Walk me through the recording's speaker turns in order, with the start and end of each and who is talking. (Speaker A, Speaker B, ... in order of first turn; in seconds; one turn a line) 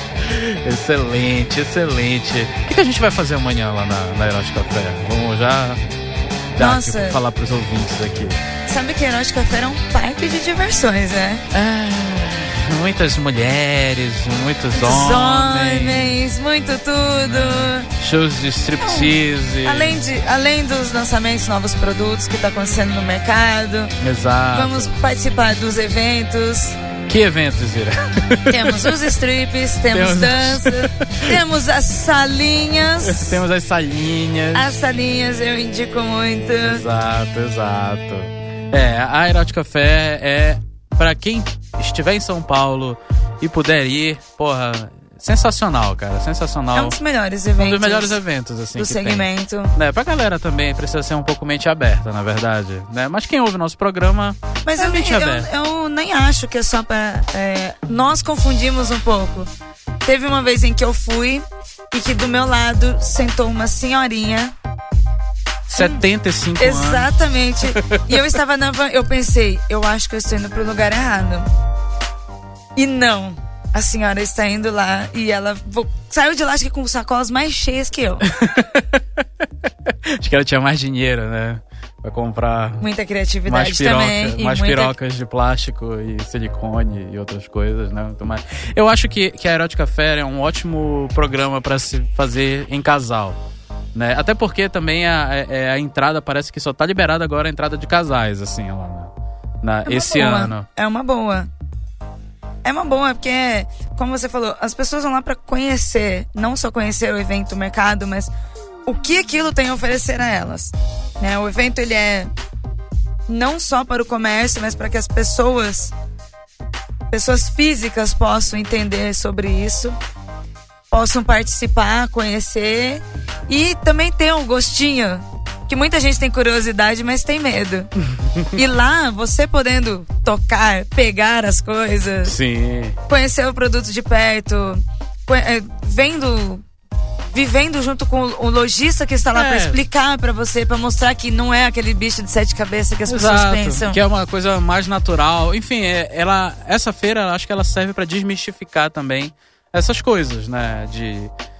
Speaker A: 0.2-5.8
Speaker A: 6.5-8.4
Speaker B: 6.6-7.2
Speaker B: 8.7-11.4
Speaker A: 11.5-16.1
Speaker B: 14.8-17.9
Speaker A: 17.2-20.0
Speaker B: 18.8-19.1
Speaker B: 19.6-23.9
Speaker A: 24.0-24.9
Speaker B: 24.5-26.8
Speaker A: 27.1-29.1
Speaker B: 28.5-33.4
Speaker A: 29.9-31.4
Speaker A: 33.0-34.7
Speaker B: 34.5-36.8
Speaker A: 36.6-47.0
Speaker B: 46.7-48.2
Speaker A: 47.6-55.5
Speaker B: 48.8-49.7
Speaker B: 54.6-59.5
Speaker B: 60.0-64.5
Speaker B: 65.7-66.0
Speaker A: 65.7-67.1
Speaker B: 66.6-71.5
Speaker A: 67.7-68.2
Speaker B: 72.8-78.3
Speaker A: 78.3-79.0
Speaker A: 80.1-82.8
Speaker B: 82.8-84.9
Speaker A: 83.5-93.4
Speaker A: 93.9-99.1
Speaker A: 99.6-100.7
Speaker B: 99.8-101.5
Speaker B: 102.6-108.3
Speaker B: 108.8-112.3
Speaker B: 113.3-115.9
Speaker B: 117.1-120.0
Speaker B: 120.9-127.9
Speaker B: 128.5-132.3
Speaker A: 132.2-133.0
Speaker B: 133.1-136.6
Speaker B: 137.3-144.0
Speaker A: 139.3-139.8
Speaker A: 143.1-151.3